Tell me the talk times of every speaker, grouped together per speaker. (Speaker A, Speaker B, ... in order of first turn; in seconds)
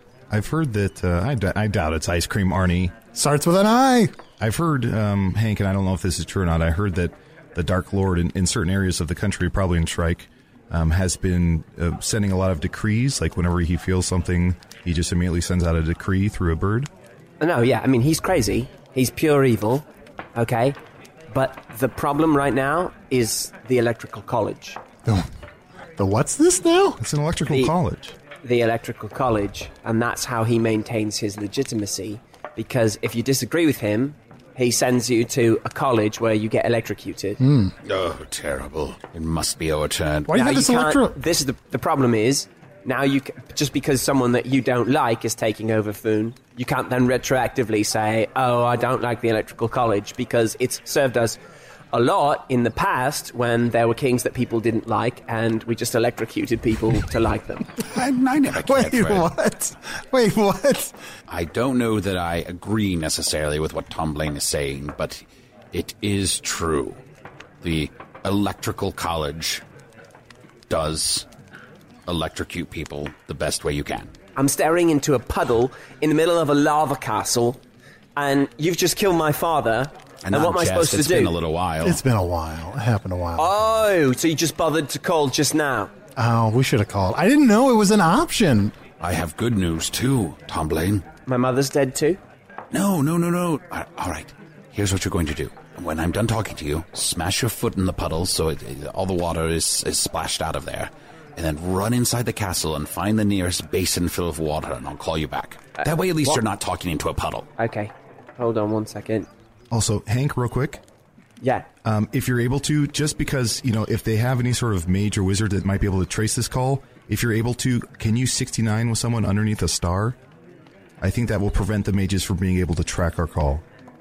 Speaker A: 0.3-2.9, 4.4-16.9, 27.0-28.1, 109.7-110.8, 111.8-120.2, 121.0-123.6
Speaker B: 3.1-4.1, 26.0-27.0, 37.4-37.7, 40.3-41.1, 58.6-60.9, 81.8-83.6, 86.2-88.8
Speaker C: 17.4-20.8, 21.3-24.8, 28.4-37.4, 40.3-51.4, 51.9-57.7, 74.4-77.6, 78.2-81.3, 83.4-85.9, 91.3-92.2, 107.6-109.3, 111.4-111.7
Speaker D: 37.8-40.4, 57.9-59.3, 61.3-65.2, 65.7-67.0, 67.6-69.6, 70.7-71.3, 72.1-74.1, 80.2-82.0, 89.0-91.0, 92.7-107.5